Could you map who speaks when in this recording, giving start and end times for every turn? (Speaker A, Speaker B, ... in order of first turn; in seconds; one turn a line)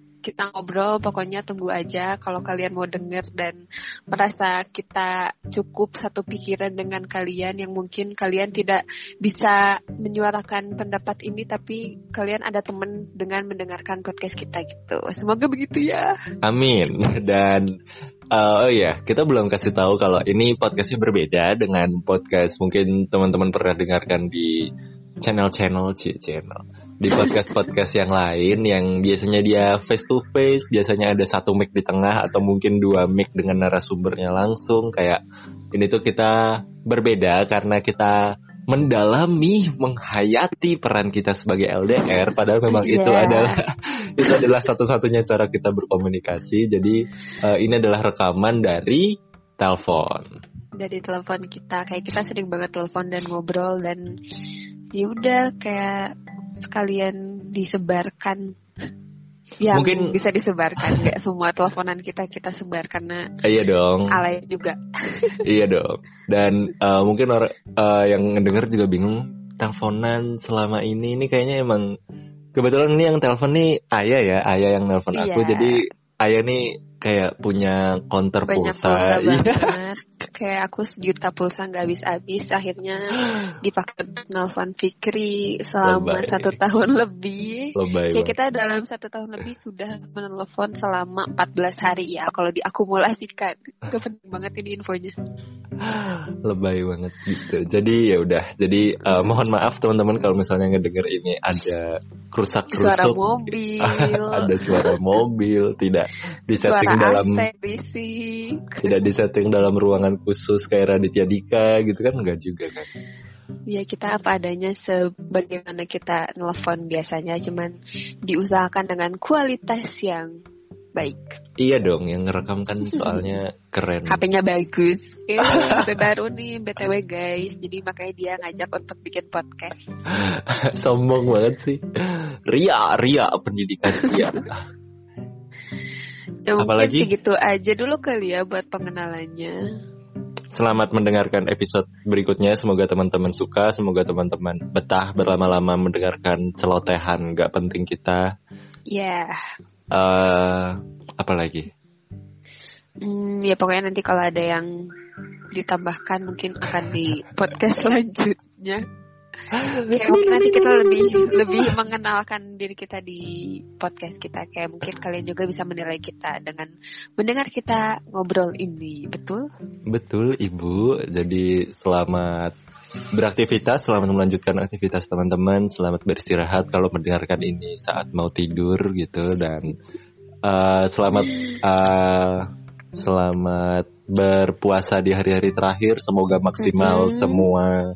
Speaker A: 0.2-16.1
Speaker B: 16.4-17.6
Speaker B: 18.3-24.6
Speaker B: 25.2-35.2
Speaker B: 35.7-50.3
Speaker A: 42.7-43.6
Speaker A: 44.2-44.5
Speaker A: 50.8-54.0
Speaker A: 54.9-58.4
Speaker A: 59.6-63.2
Speaker B: 59.7-60.1
Speaker B: 60.8-61.1
Speaker B: 63.4-64.1
Speaker A: 64.1-65.4
Speaker B: 65.5-71.9
Speaker B: 72.5-79.7
Speaker A: 75.1-75.8
Speaker A: 78.5-83.0
Speaker A: 83.6-95.1
Speaker B: 85.8-86.5
Speaker B: 87.8-88.3
Speaker B: 95.8-103.2
Speaker A: 102.7-105.0
Speaker B: 103.8-107.4
Speaker A: 106.5-108.9
Speaker B: 108.8-112.9
Speaker A: 113.7-120.3
Speaker A: 120.9-121.4
Speaker B: 121.6-124.2
Speaker A: 122.8-123.3
Speaker A: 124.1-130.0
Speaker B: 125.4-126.0
Speaker B: 130.1-131.8
Speaker B: 132.5-134.6
Speaker A: 136.5-139.5
Speaker B: 136.6-137.1
Speaker B: 140.5-148.2
Speaker A: 148.9-149.4
Speaker B: 149.9-151.7
Speaker A: 153.0-154.7
Speaker A: 155.5-158.8
Speaker B: 159.5-161.7
Speaker A: 159.8-169.4
Speaker B: 169.9-172.5
Speaker B: 173.1-179.7
Speaker B: 180.4-182.4
Speaker A: 181.3-181.6
Speaker B: 183.0-187.8
Speaker A: 186.6-187.4